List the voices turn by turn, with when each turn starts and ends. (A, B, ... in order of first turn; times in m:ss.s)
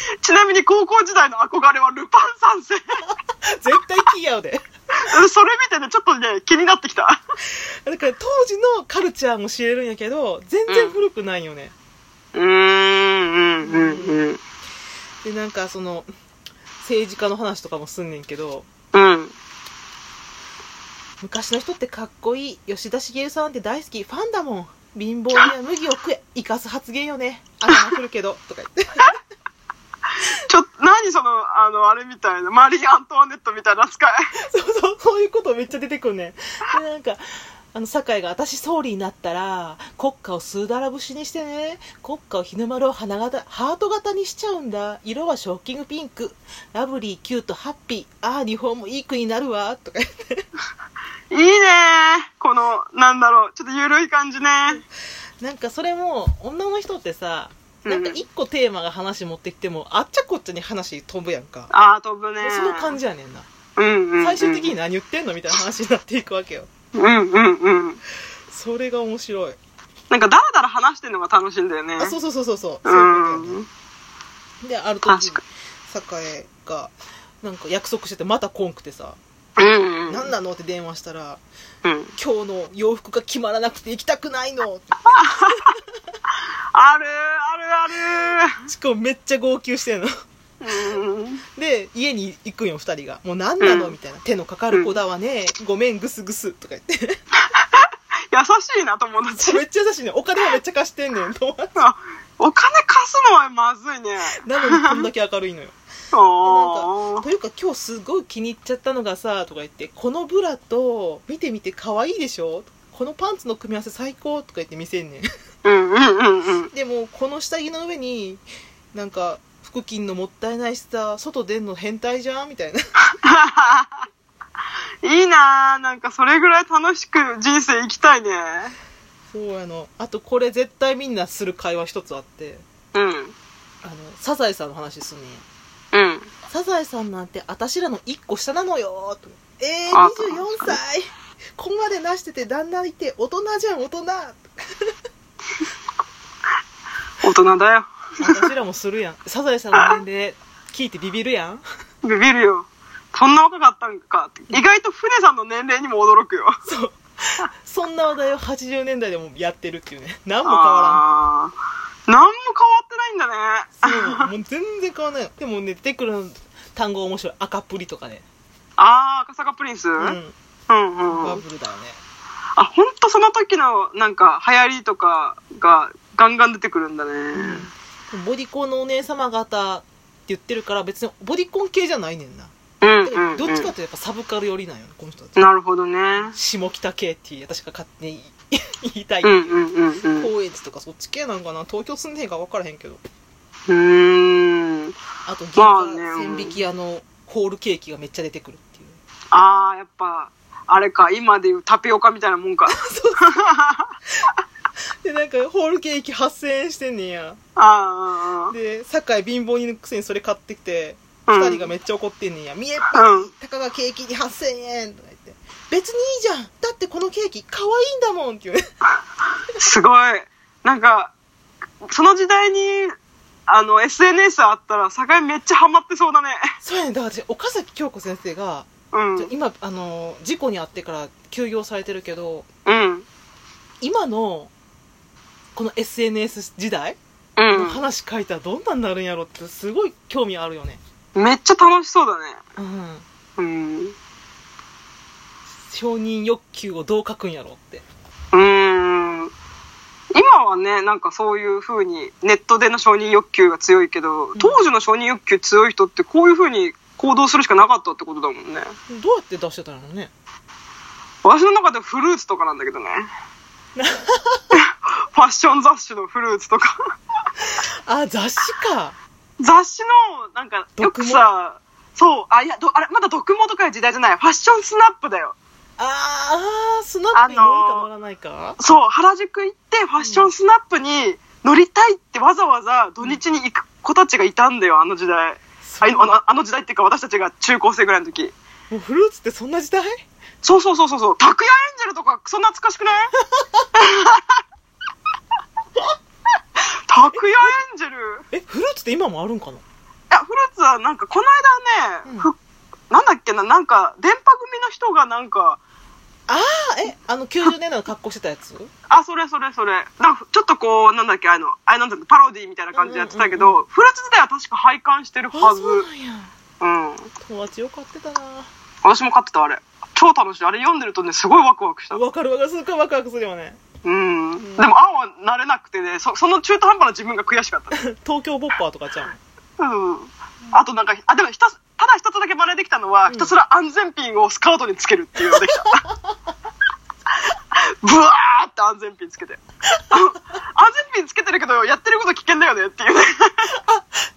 0:00.2-0:02.8 A
0:03.1-0:04.6 B
0:05.0-0:07.2 A
0:07.8-0:11.8 B
0:10.7-0:11.0 A
0:12.3-0:14.4 A
0:13.6-0:14.2 B
0:15.2-0:16.1 B
0:16.8-0:18.7 B
0:18.9-0:19.3 A
0:21.2-0:29.1 B
0:30.4-0:34.2 A
0:34.5-0:37.2 B
0:37.7-0:50.4 B
0:51.3-0:54.8 A
0:55.4-1:01.7 B
0:57.8-0:58.2 A
1:01.7-1:03.0 A
1:02.4-1:03.5 B
1:03.8-1:04.7 A
1:04.2-1:06.7 B
1:06.9-1:08.0 A
1:08.5-1:09.6 B
1:10.1-1:12.2 A
1:12.0-1:13.6 B
1:12.8-1:13.7 A
1:14.6-1:19.2 B
1:15.1-1:15.4 A
1:19.6-1:20.3 A
1:20.1-1:21.4 B
1:21.8-1:22.1 A
1:22.2-1:25.8 B
1:25.2-1:25.6 A
1:26.7-1:28.5 A
1:28.6-1:30.1 B
1:30.6-1:31.4 A
1:31.6-1:37.2 B
1:33.6-1:34.0 A
1:37.5-1:39.6 A
1:39.4-1:41.8 B
1:41.8-1:45.1 A
1:44.4-1:45.8 B
1:46.1-1:47.2 A
1:46.4-1:55.2 B
1:55.6-1:56.7 A
1:56.7-1:58.4 B
1:58.9-2:02.8 B
2:03.2-2:04.0 A
2:05.0-2:08.7 A
2:09.3-2:12.6 B
2:12.9-2:13.3 A
2:13.8-2:15.4 B
2:15.9-2:16.3 A
2:16.5-2:24.9 B
2:19.9-2:20.8 A
2:27.2-2:28.5 A
2:28.2-2:31.6 B
2:32.0-2:36.6 A
2:36.6-2:41.0 B
2:40.4-2:41.5 A
2:42.1-2:44.3 A
2:43.8-2:48.2 B
2:48.8-2:50.2 A
2:50.0-2:50.4 B
2:50.7-2:51.4 A
2:51.1-2:52.0 B
2:52.6-2:57.7 A
2:57.4-3:02.5 B
3:02.8-3:03.7 A
3:03.0-3:05.5 B
3:05.4-3:06.4 A
3:06.2-3:09.6 B
3:09.2-3:10.3 A
3:10.1-3:13.0 B
3:13.7-3:14.9 A
3:15.2-3:19.0 B
3:15.6-3:16.6 A
3:19.3-3:23.9 A
3:22.7-3:23.5 B
3:25.0-3:27.4 B
3:27.6-3:28.5 A
3:28.5-3:38.6 B
3:31.3-3:31.7 A
3:32.9-3:33.3 A
3:39.6-3:41.1 A
3:41.9-3:42.9 A
3:43.5-3:46.4 A
3:46.6-3:52.5 B
3:48.9-3:49.3 A
3:52.6-3:53.0 A
3:53.8-3:54.5 B
3:55.5-3:57.0 B
3:57.4-3:57.8 A
3:57.5-4:00.8 B
4:01.1-4:02.4 A
4:02.6-4:03.0 B
4:03.4-4:03.9 A
4:05.6-4:07.8 B
4:08.3-4:09.3 A
4:10.1-4:18.7 A
4:14.4-4:14.6 B
4:18.9-4:20.1 B
4:21.2-4:23.1 A
4:23.8-4:24.4 B
4:24.5-4:26.8 A
4:27.5-4:29.0 B
4:29.4-4:35.4 A
4:30.8-4:31.2 B
4:35.8-4:38.6 B
4:37.1-4:37.9 A
4:38.6-4:48.3 A
4:40.0-4:40.3 B
4:45.6-4:46.2 B
4:48.7-4:50.0 B
4:50.4-4:53.1 A
4:53.3-4:53.6 B
4:53.8-4:54.2 A
4:56.9-4:58.2 A
4:57.1-4:57.5 B
4:58.3-4:59.6 B
5:00.1-5:02.4 A
5:02.0-5:02.3 B
5:02.9-5:05.6 A
5:06.3-5:08.7 B
5:08.9-5:15.9 A
5:12.7-5:13.6 B
5:15.3-5:16.3 B
5:16.6-5:17.1 A
5:17.2-5:18.5 B
5:18.8-5:22.0 A
5:21.9-5:23.6 B
5:23.8-5:27.8 A
5:24.5-5:24.8 B
5:27.8-5:29.2 B
5:29.6-5:35.8 A
5:33.1-5:33.3 B
5:35.2-5:36.1 B
5:37.6-5:43.5 A
5:43.5-5:43.9 B